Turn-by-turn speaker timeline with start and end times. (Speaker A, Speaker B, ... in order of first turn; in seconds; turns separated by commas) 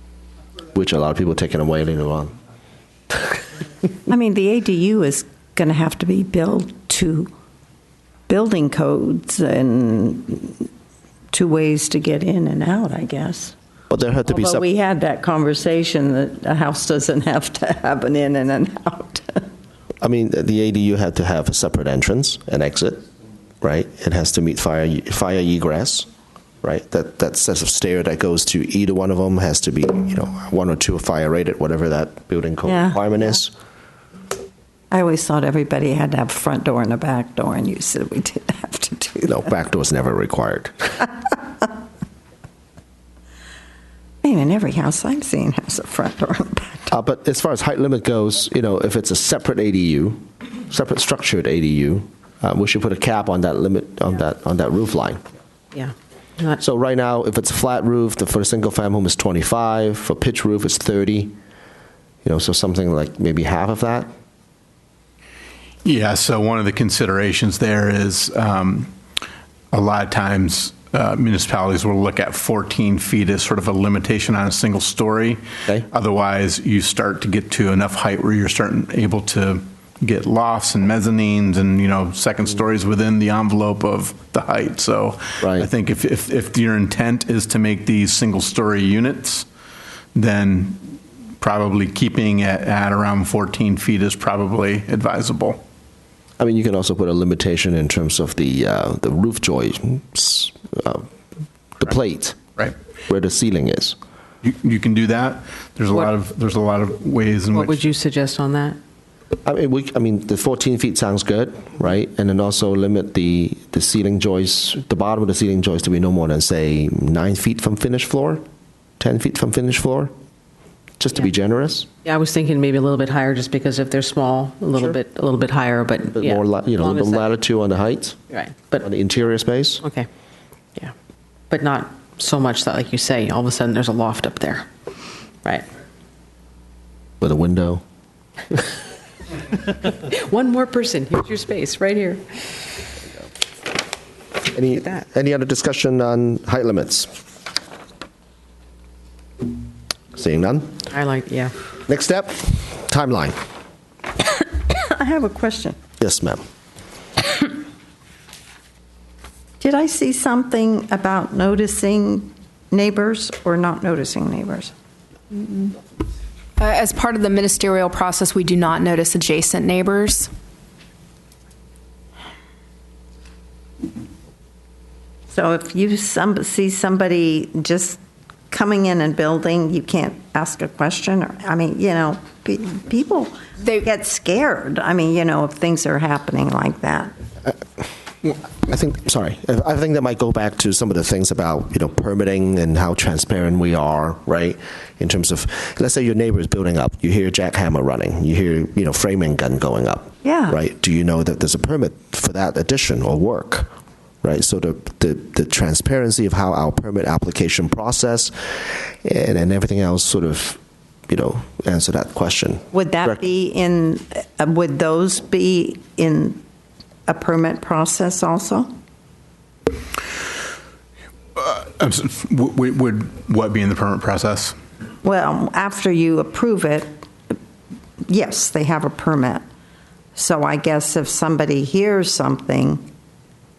Speaker A: 0.7-2.3, Speaker B: 4.1-7.3, Speaker B: 8.3-10.7, Speaker B: 11.3-13.5, Speaker A: 13.9-14.6, Speaker B: 14.2-19.4, Speaker A: 20.0-23.0, Speaker A: 23.6-26.1, Speaker A: 26.6-33.5, Speaker B: 32.6-33.1, Speaker B: 34.9-39.4, Speaker A: 39.3-41.0, Speaker B: 44.2-46.9, Speaker A: 46.9-55.2, Speaker C: 55.7-56.6, Speaker A: 56.6-61.3, Speaker A: 62.2-64.1, Speaker D: 65.8-68.9, Speaker D: 69.7-89.5, Speaker A: 85.4-85.7, Speaker D: 90.1-90.8, Speaker D: 91.4-95.6, Speaker A: 96.4-101.0, Speaker A: 101.8-102.4, Speaker A: 103.1-104.0, Speaker D: 104.4-107.8, Speaker C: 107.5-108.8, Speaker A: 109.4-118.4, Speaker A: 119.0-120.1, Speaker A: 121.0-121.9, Speaker C: 122.0-127.3, Speaker A: 126.1-128.2, Speaker C: 128.3-128.8, Speaker A: 128.8-129.8, Speaker C: 129.8-130.1, Speaker C: 131.5-134.7, Speaker A: 137.2-137.8, Speaker C: 139.7-142.2, Speaker A: 144.5-147.1, Speaker C: 144.8-145.0, Speaker A: 150.1-150.7, Speaker C: 150.9-151.5, Speaker A: 151.9-153.4, Speaker B: 154.7-155.8, Speaker A: 156.0-156.4, Speaker B: 159.6-164.7, Speaker E: 166.6-170.3, Speaker B: 175.3-178.0, Speaker B: 178.5-187.1, Speaker A: 188.2-203.7, Speaker B: 200.2-200.6, Speaker A: 204.2-208.3, Speaker A: 209.0-213.2, Speaker B: 212.7-216.4, Speaker B: 217.1-218.7, Speaker D: 221.3-224.5, Speaker B: 225.0-226.9, Speaker B: 228.1-229.4, Speaker B: 230.2-232.9